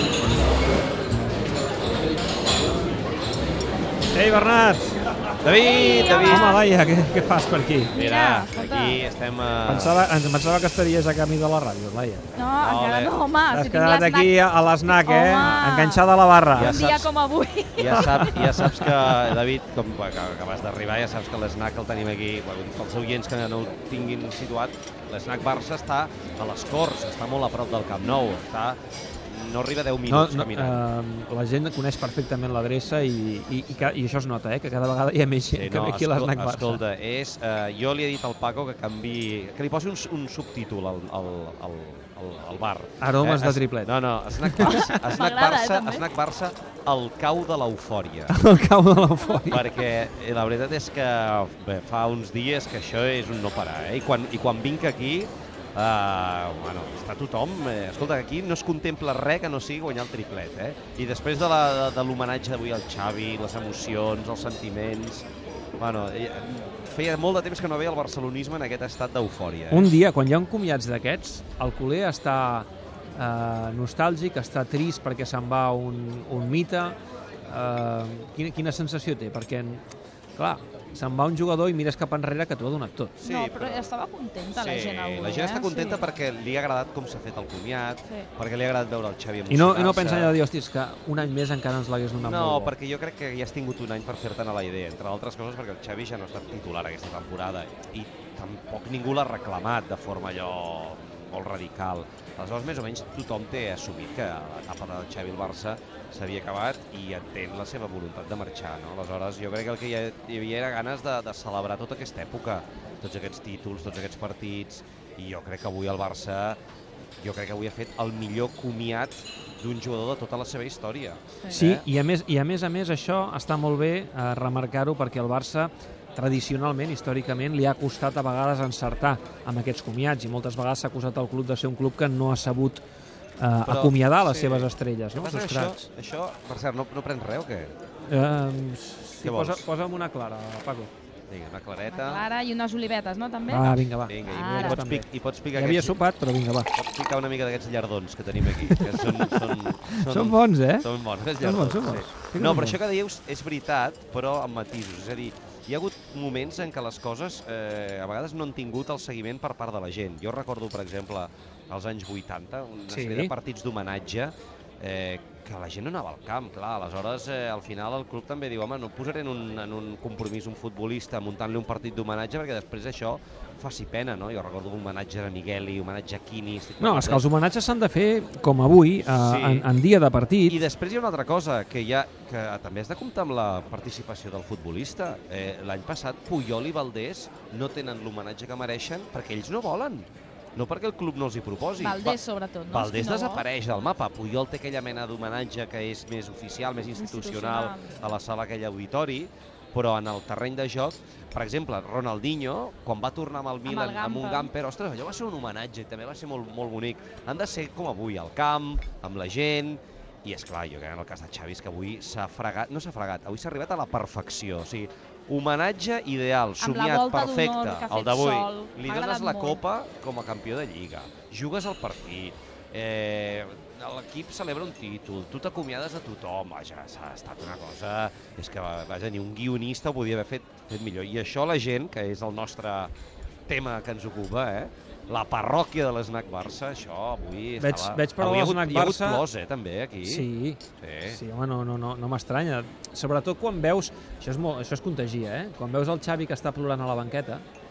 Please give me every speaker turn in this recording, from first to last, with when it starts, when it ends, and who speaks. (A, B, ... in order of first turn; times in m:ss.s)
0:04.1-0:05.0 A
0:05.4-0:06.6 B
0:05.5-0:06.6 C
0:06.2-0:07.9 A
0:07.9-0:09.0 C
0:07.9-0:10.0 B
0:09.6-0:12.3 A
0:12.3-0:14.3 C
0:12.6-0:13.2 B
0:13.5-0:16.8 A
0:14.8-0:16.0 C
0:16.5-0:17.1 B
0:16.5-0:18.4 C
0:17.8-0:30.8 B
0:18.0-0:19.1 A
0:30.0-0:36.8 A
0:35.5-0:48.3 B
0:43.0-0:44.9 A
0:44.6-0:46.1 C
0:48.3-0:49.7 A
0:49.4-1:05.3 B
1:05.8-1:09.9 B
1:09.7-1:17.0 A
1:17.5-1:19.8 A
1:20.3-1:23.2 A
1:23.2-1:26.0 C
1:23.2-1:23.9 B
1:24.5-1:30.4 B
1:29.5-1:32.7 A
1:32.2-1:56.6 B
1:57.2-2:01.8 B
2:01.5-2:12.8 A
2:13.4-2:15.8 A
2:13.6-2:17.7 B
2:18.1-2:20.9 A
2:19.2-2:19.6 B
2:21.3-2:22.3 B
2:21.9-2:24.8 C
2:23.5-2:26.7 A
2:24.0-2:26.0 B
2:26.7-2:57.2 B
2:28.4-2:32.8 A
2:42.9-2:43.3 A
2:56.8-3:00.6 A
2:59.0-2:59.7 B
3:00.4-3:52.9 B
3:11.8-3:13.5 C
3:16.9-3:18.1 C
3:23.6-3:24.5 C
3:36.6-3:39.6 C
3:53.5-4:01.2 B
3:57.6-3:59.2 A
4:00.0-4:07.4 A